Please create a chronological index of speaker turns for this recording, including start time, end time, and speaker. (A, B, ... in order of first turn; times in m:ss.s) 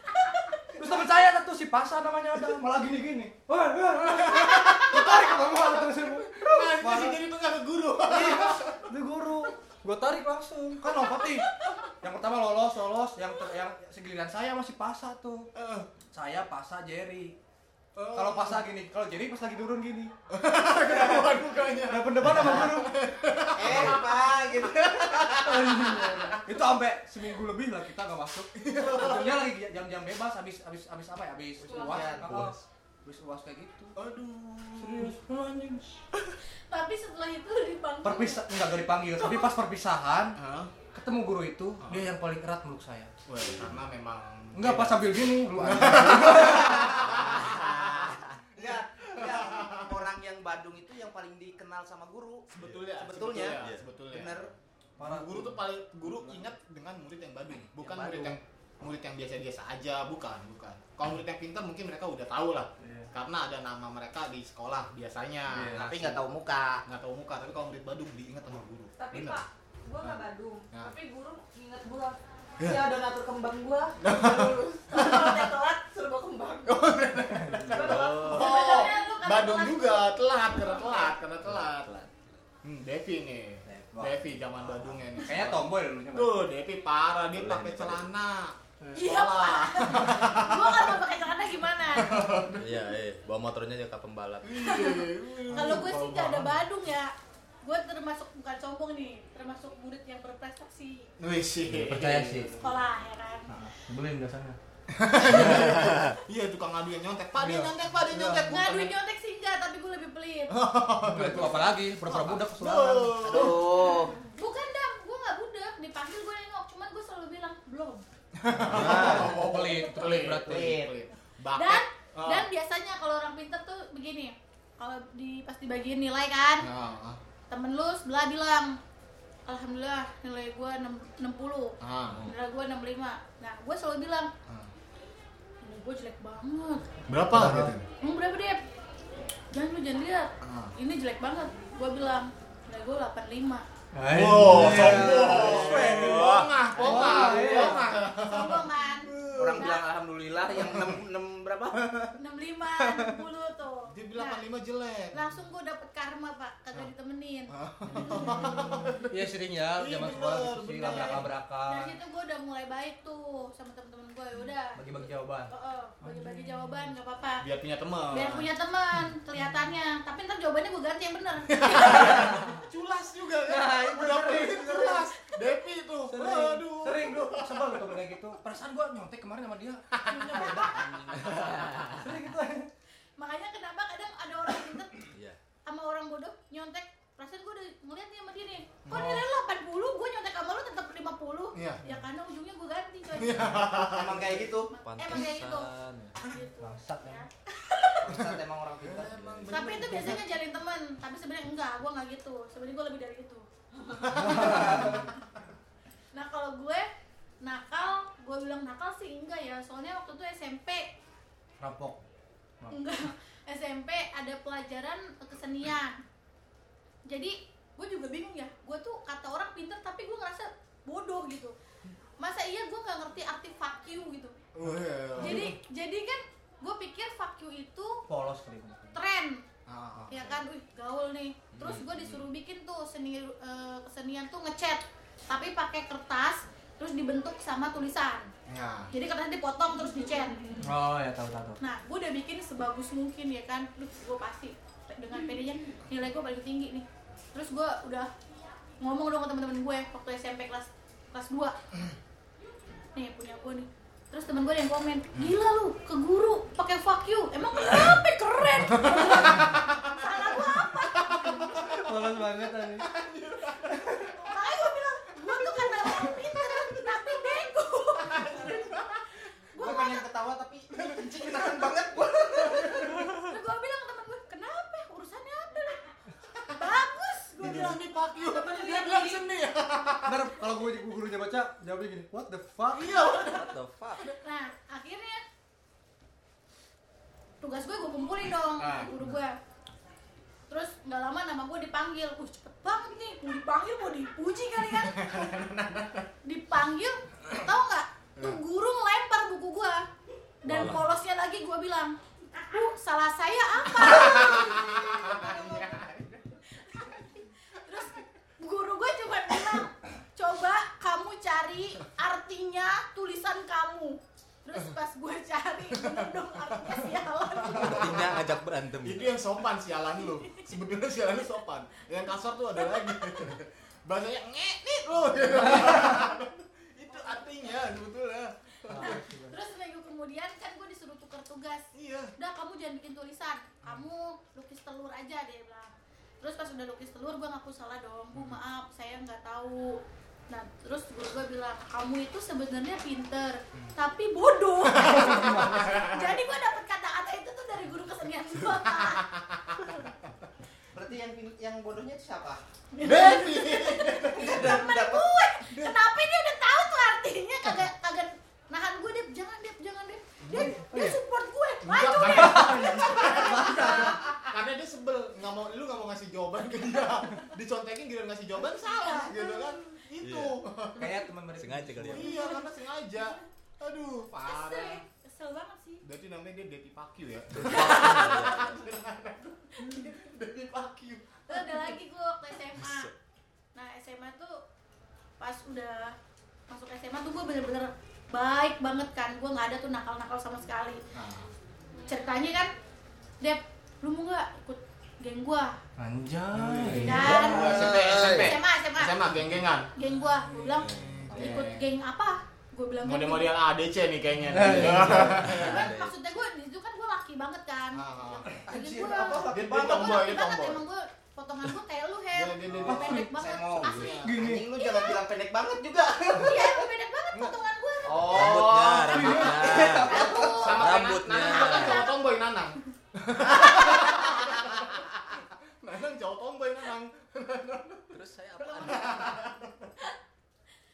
0:00.1-0:00.6 A
0:00.7-0:07.2 B
0:04.0-0:08.9 C
0:08.1-0:15.5 B
0:15.5-0:15.9 C
0:16.1-0:17.4 B
0:17.9-0:18.7 C
0:18.1-0:20.1 B
0:20.3-0:26.4 C
0:20.8-0:23.0 B
0:23.5-0:25.5 D
0:25.3-0:34.0 B
0:28.5-0:29.4 C
0:31.6-0:32.2 E
0:31.7-0:32.3 D
0:32.2-0:32.6 C
0:34.0-0:35.2 C
0:34.8-0:36.0 B
0:36.7-0:38.4 A
0:38.0-0:40.4 B
0:39.1-0:39.5 A
0:40.4-0:40.7 C
0:40.9-0:43.1 B
0:41.8-0:42.1 C
0:43.3-0:50.1 C
0:44.5-0:46.9 B
0:46.6-0:54.5 D
0:52.5-1:06.2 C
0:53.6-0:53.8 F
0:55.0-0:56.5 B
0:57.8-0:58.4 B
1:02.8-1:03.1 B
1:05.5-1:05.9 B
1:05.7-1:06.8 D
1:06.8-1:09.4 C
1:09.0-1:20.1 E
1:10.0-1:10.9 C
1:12.6-1:12.8 C
1:14.0-1:15.5 C
1:16.6-1:21.9 C
1:17.3-1:17.6 B
1:17.7-1:18.7 F
1:18.7-1:19.4 A
1:21.4-1:22.4 F
1:22.6-1:31.0 C
1:23.6-1:24.2 B
1:25.2-1:26.4 B
1:27.3-1:28.1 F
1:28.9-1:32.3 A
1:32.0-1:32.7 C
1:32.6-1:34.8 F
1:34.4-1:36.6 C
1:34.6-1:41.1 A
1:41.2-1:42.7 C
1:41.7-1:42.5 B
1:42.6-1:43.5 A
1:43.5-1:44.6 B
1:44.9-1:48.9 C
1:45.3-1:46.1 F
1:47.4-1:48.5 B
1:48.4-1:50.6 A
1:50.5-1:53.8 C
1:51.0-1:53.6 B
1:53.2-1:54.2 D
1:54.3-1:58.0 A
1:58.4-2:02.5 C
1:58.7-1:59.4 D
1:58.7-2:00.8 B
2:00.4-2:01.0 D
2:01.5-2:06.7 A
2:06.6-2:07.2 C
2:07.5-2:08.8 A
2:09.5-2:14.3 A
2:11.8-2:12.3 C
2:15.6-2:16.9 A
2:17.1-2:17.8 C
2:17.3-2:17.7 B
2:18.0-2:18.6 A
2:19.5-2:23.6 A
2:20.4-2:20.7 C
2:23.9-2:27.8 B
2:24.1-2:29.7 C
2:24.5-2:24.8 F
2:25.4-2:26.5 F
2:26.8-2:27.6 D
2:27.4-2:29.9 A
2:29.3-2:32.2 D
2:30.5-2:31.0 C
2:32.2-2:34.4 A
2:32.8-2:33.2 D
2:33.9-2:35.3 C
2:35.1-2:37.5 A
2:37.5-2:41.3 C
2:37.8-2:42.0 B
2:40.9-2:44.8 A
2:44.8-2:46.9 B
2:45.5-2:47.4 A
2:47.4-2:48.5 C
2:48.1-2:52.5 A
2:51.5-2:58.0 C
2:52.1-2:52.5 B
2:53.5-2:54.9 B
2:53.5-2:54.9 D
2:54.7-2:55.5 A
2:56.1-3:01.2 B
2:59.9-3:01.7 C
3:00.1-3:01.2 A
3:01.1-3:02.0 F
3:01.9-3:02.7 B
3:03.2-3:05.1 A
3:05.1-3:05.4 F
3:05.6-3:13.6 A
3:08.8-3:09.2 C
3:11.5-3:11.8 C
3:13.1-3:14.4 C
3:13.6-3:14.7 D
3:14.7-3:18.1 A
3:14.8-3:16.1 F
3:16.6-3:17.2 B
3:18.0-3:20.0 D
3:18.1-3:20.2 C
3:19.2-3:19.4 F
3:19.5-3:23.4 A
3:24.0-3:25.2 C
3:24.1-3:25.0 B
3:26.1-3:26.9 A
3:27.4-3:30.9 A
3:31.6-3:32.0 B
3:32.7-3:36.0 A
3:37.0-3:41.5 A
3:42.2-3:44.3 A
3:44.5-3:45.6 C
3:45.2-3:48.0 A
3:45.2-3:45.5 B
3:48.1-3:49.0 B
3:48.9-3:49.4 A
3:49.7-3:50.3 C
3:50.1-3:58.3 A
3:51.5-3:52.2 F
3:58.5-3:58.9 C
3:58.9-4:00.6 A
4:00.6-4:01.6 B
4:01.6-4:08.1 A
4:08.8-4:11.5 A
4:12.9-4:21.8 A
4:18.8-4:20.0 C
4:21.0-4:21.8 C
4:21.7-4:22.9 B
4:22.3-4:24.1 C
4:23.5-4:29.0 A
4:25.3-4:26.8 C
4:28.0-4:28.9 C
4:29.5-4:30.0 A
4:29.6-4:33.1 D
4:30.7-4:31.6 C
4:32.3-4:33.0 C
4:33.0-4:35.8 A
4:36.5-4:38.7 A
4:37.4-4:40.3 C
4:38.3-4:39.0 E
4:40.0-4:42.9 B
4:42.7-4:43.5 C
4:42.9-4:44.1 F
4:44.2-4:45.2 A
4:47.4-4:49.4 A
4:48.6-4:49.0 C
4:50.5-4:55.5 A
4:54.9-4:56.0 C
4:56.2-4:59.9 A
5:00.4-5:05.8 A
5:00.4-5:00.8 F
5:03.7-5:05.6 C
5:05.0-5:05.9 D
5:06.4-5:18.2 A
5:17.4-5:18.3 C
5:17.5-5:19.2 F
5:18.8-5:29.0 C
5:25.5-5:25.9 B
5:28.7-5:29.4 B
5:28.8-5:49.1 A
5:31.7-5:32.1 C
5:38.1-5:38.4 C
5:44.8-5:46.1 C
5:44.8-5:45.7 B
5:48.8-5:50.1 C
5:50.7-5:52.4 D
5:52.7-6:04.2 A
5:52.8-5:54.6 C
5:54.0-5:55.1 D
6:00.2-6:00.5 C
6:00.3-6:01.0 B
6:01.6-6:11.0 C
6:02.0-6:04.0 B
6:08.6-6:09.6 A
6:10.0-6:10.4 F
6:10.8-6:12.1 B
6:11.4-6:12.1 F
6:11.9-6:14.8 C
6:12.1-6:13.2 A
6:14.2-6:15.8 A
6:15.8-6:21.7 C
6:17.4-6:18.7 F
6:21.3-6:22.9 A
6:22.6-6:22.9 F
6:23.5-6:24.4 A
6:25.2-6:25.9 A
6:26.5-6:30.8 A
6:30.9-6:31.3 C
6:31.9-6:32.5 A
6:33.2-6:35.6 A
6:35.8-6:37.4 B
6:36.3-6:39.7 C
6:36.8-6:38.9 A
6:37.4-6:38.3 F
6:37.5-6:38.2 D
6:39.7-6:43.3 A
6:40.2-6:40.6 B
6:40.6-6:41.0 F
6:40.7-6:41.7 C
6:42.8-6:45.7 C
6:44.3-6:45.3 B
6:44.8-6:46.2 F
6:45.4-6:55.0 A
6:47.7-6:48.3 C
6:48.5-6:50.0 D
6:49.2-6:50.6 C
6:52.1-6:53.1 C
6:52.6-6:53.1 B
6:53.1-6:56.7 D
6:53.6-6:54.3 C
6:54.0-6:54.4 B
6:56.1-6:58.4 A
6:57.8-6:59.5 D
6:58.0-7:08.0 C
6:58.0-7:01.8 F
6:58.9-7:00.2 B
6:59.2-7:02.0 A
7:03.2-7:04.6 D
7:07.9-7:09.2 F
7:08.4-7:09.0 A
7:08.5-7:09.7 C